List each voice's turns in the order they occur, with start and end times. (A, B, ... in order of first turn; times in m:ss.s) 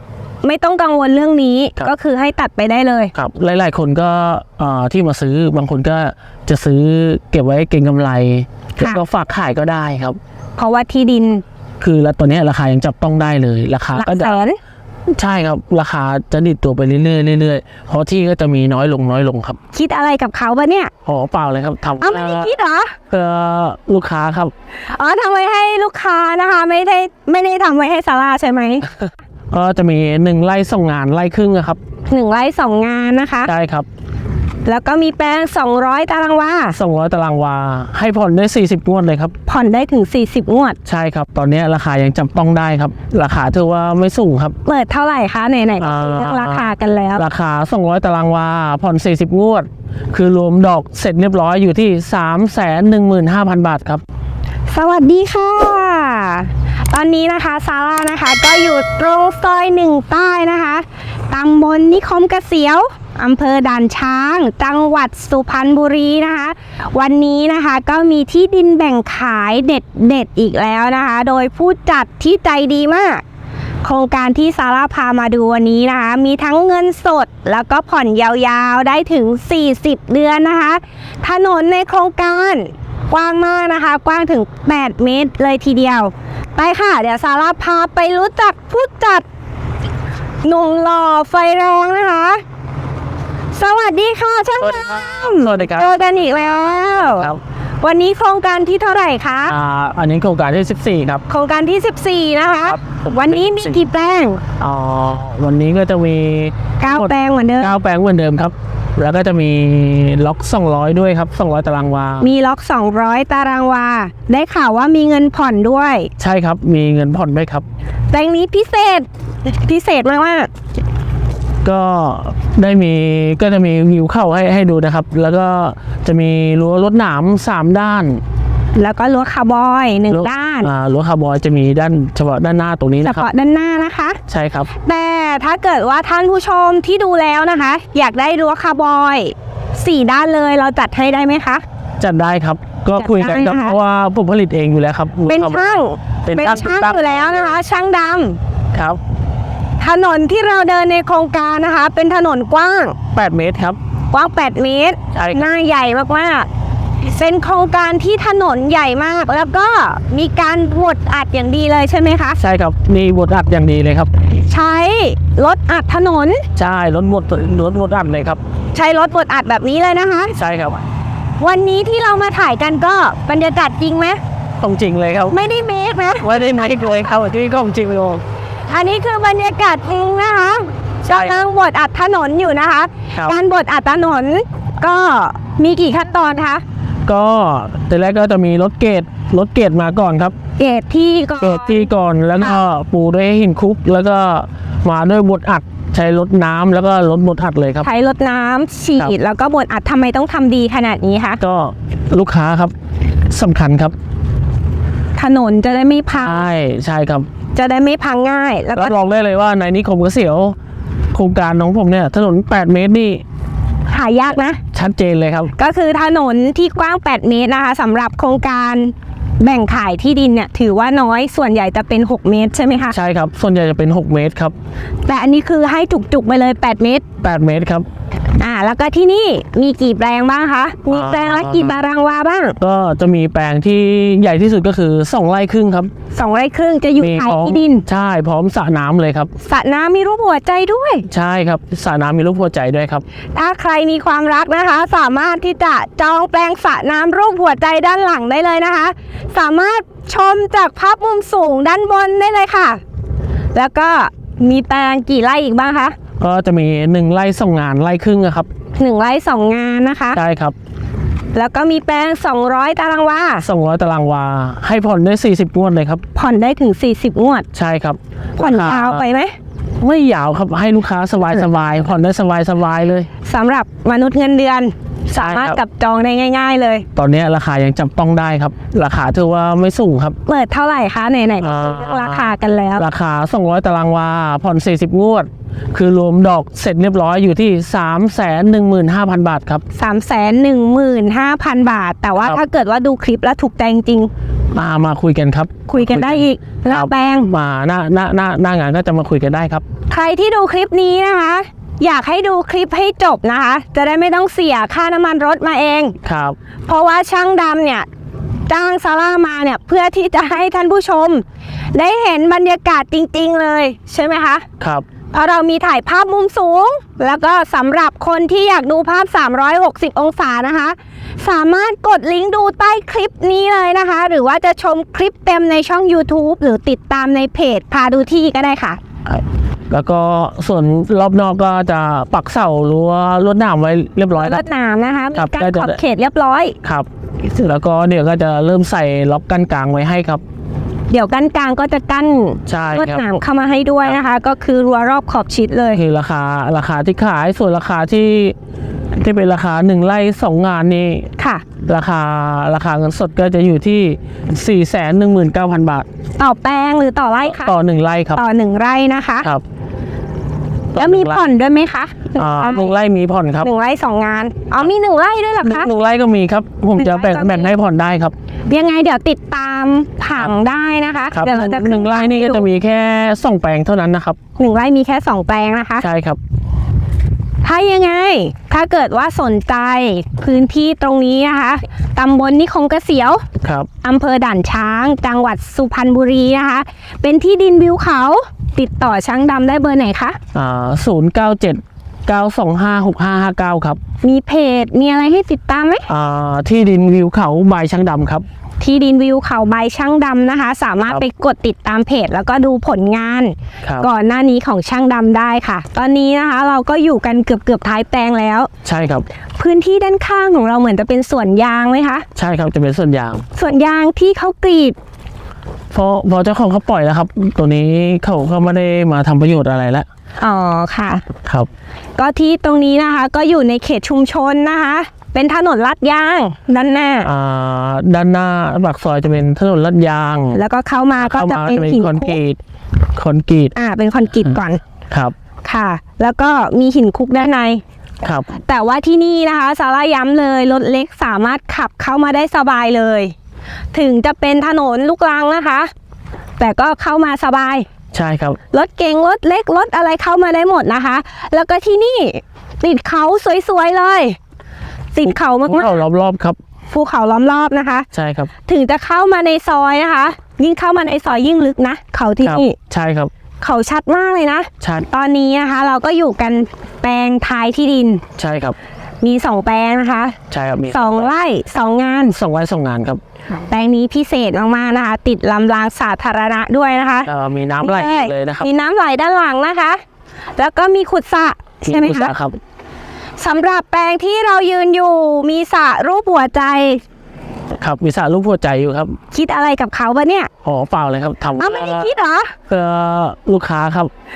0:00.4-0:03.1 A
0:03.2-0:10.2 B
0:10.6-0:11.4 A
0:11.8-0:14.4 B
0:13.9-0:14.6 A
0:15.1-0:19.6 B
0:19.7-0:20.9 A
0:21.0-0:22.5 B
0:22.0-0:23.0 A
0:23.1-0:24.5 B
0:24.9-0:28.9 A
0:29.5-0:31.8 B
0:32.1-0:33.5 A
0:33.5-0:33.9 B
0:34.6-0:36.8 A
0:36.7-0:39.4 B
0:39.5-0:40.8 A
0:40.8-0:44.6 B
0:44.6-0:47.2 A
0:45.8-0:54.0 B
0:54.7-1:13.2 A
1:13.8-1:29.3 A
1:30.4-1:32.4 A
1:33.5-1:37.3 A
1:34.6-1:36.0 B
1:37.0-1:37.4 B
1:37.8-1:39.6 A
1:39.5-1:41.2 B
1:41.3-1:44.4 A
1:42.6-1:43.8 B
1:44.6-1:52.3 B
1:46.8-1:47.7 A
1:52.2-1:56.1 A
1:56.2-1:57.7 B
1:58.1-2:00.5 A
2:01.6-2:08.2 B
2:08.7-2:10.7 A
2:10.1-2:13.3 B
2:13.0-2:14.2 A
2:14.3-2:14.7 B
2:14.8-2:21.6 A
2:22.0-2:27.6 B
2:23.0-2:23.8 A
2:25.3-2:28.4 A
2:28.7-2:29.0 B
2:29.8-2:33.0 A
2:33.1-2:33.8 B
2:34.1-2:36.5 A
2:35.1-2:35.5 B
2:37.0-2:42.4 A
2:42.4-2:44.1 B
2:44.4-2:46.4 A
2:46.6-2:48.4 B
2:48.7-2:50.4 A
2:50.4-2:50.8 B
2:51.4-2:54.2 A
2:54.6-2:55.4 B
2:55.3-2:56.3 A
2:56.2-2:58.2 B
2:58.7-3:06.6 A
3:01.1-3:01.4 B
3:07.1-3:10.4 B
3:10.6-3:11.9 A
3:11.4-3:17.9 B
3:17.8-3:21.4 A
3:21.4-3:22.7 B
3:23.3-3:24.0 B
3:25.2-3:26.5 A
3:26.2-3:27.3 B
3:27.6-3:29.0 A
3:28.8-3:30.6 B
3:31.1-3:33.2 B
3:33.9-3:34.6 A
3:34.7-3:35.5 B
3:35.6-3:42.9 A
3:42.9-3:44.6 B
3:45.1-3:47.0 A
3:47.2-3:47.9 B
3:48.4-3:52.6 A
3:50.9-3:51.8 B
3:52.6-3:55.9 B
3:56.1-3:57.8 A
3:57.0-3:59.3 B
3:59.4-4:01.1 A
4:01.1-4:03.0 B
4:03.4-4:12.8 A
4:13.5-4:16.0 A
4:16.2-4:18.5 B
4:18.8-4:20.2 A
4:20.1-4:20.6 B
4:21.3-4:23.4 A
4:23.4-4:26.0 B
4:26.2-4:27.5 A
4:27.5-4:29.0 B
4:28.4-4:29.3 A
4:29.8-4:33.1 B
4:33.2-4:36.9 A
4:35.1-4:35.6 B
4:37.0-4:40.2 B
4:40.3-4:42.8 A
4:41.4-4:49.6 B
4:49.7-4:54.1 A
4:54.5-4:59.6 B
4:55.7-4:57.3 A
4:59.9-5:06.0 A
5:06.0-5:06.4 B
5:06.7-5:07.9 A
5:08.5-5:14.5 A
5:14.6-5:14.9 B
5:15.1-5:28.8 A
5:29.1-5:34.4 B
5:34.2-5:36.6 A
5:35.2-5:35.8 B
5:36.6-5:40.2 B
5:40.9-5:45.8 A
5:42.5-5:43.0 B
5:45.7-5:48.4 B
5:48.9-5:55.9 B
5:51.2-5:51.4 A
5:56.2-5:57.5 A
5:57.3-5:58.2 B
5:58.2-5:59.3 A
6:00.7-6:01.2 B
6:00.8-6:02.7 A
6:02.2-6:03.5 B
6:03.4-6:05.7 A
6:05.4-6:08.1 B
6:06.8-6:07.5 A
6:08.5-6:12.4 A
6:11.1-6:14.2 B
6:14.4-6:15.8 A
6:15.8-6:16.2 B
6:17.4-6:23.2 A
6:23.4-6:23.7 B
6:23.8-6:30.2 A
6:30.3-6:33.8 B
6:34.0-6:35.9 A
6:35.9-6:38.3 B
6:38.6-6:48.5 A
6:48.6-6:49.1 B
6:49.4-6:52.1 A
6:52.2-6:53.2 B
6:53.4-6:54.8 A
6:55.7-6:59.9 B
7:00.2-7:01.1 A
7:01.2-7:01.5 B
7:02.0-7:07.1 A
7:07.0-7:10.4 B
7:10.3-7:12.2 A
7:11.0-7:12.4 B
7:13.0-7:13.5 B
7:13.6-7:14.6 A
7:14.9-7:15.2 B
7:15.4-7:17.6 A
7:18.0-7:18.3 B
7:18.4-7:23.1 A
7:23.7-7:25.7 A
7:26.4-7:27.7 A
7:27.9-7:28.4 B
7:28.5-7:34.2 A
7:34.9-7:35.8 A
7:35.0-7:36.4 B
7:36.7-7:37.9 A
7:37.9-7:38.3 B
7:38.5-7:42.6 A
7:42.2-7:43.1 B
7:43.4-7:48.0 A
7:44.6-7:44.9 B
7:48.2-7:48.6 B
7:49.0-7:50.2 A
7:50.3-7:51.1 B
7:50.7-7:52.2 A
7:52.1-7:53.0 B
7:53.4-7:57.1 A
7:57.1-7:58.5 B
7:57.6-7:59.8 A
8:00.4-8:02.1 A
8:01.7-8:02.4 B
8:03.2-8:06.8 A
8:07.6-8:09.0 B
8:09.1-8:10.3 A
8:10.4-8:11.9 B
8:11.4-8:12.3 A
8:12.5-8:13.9 B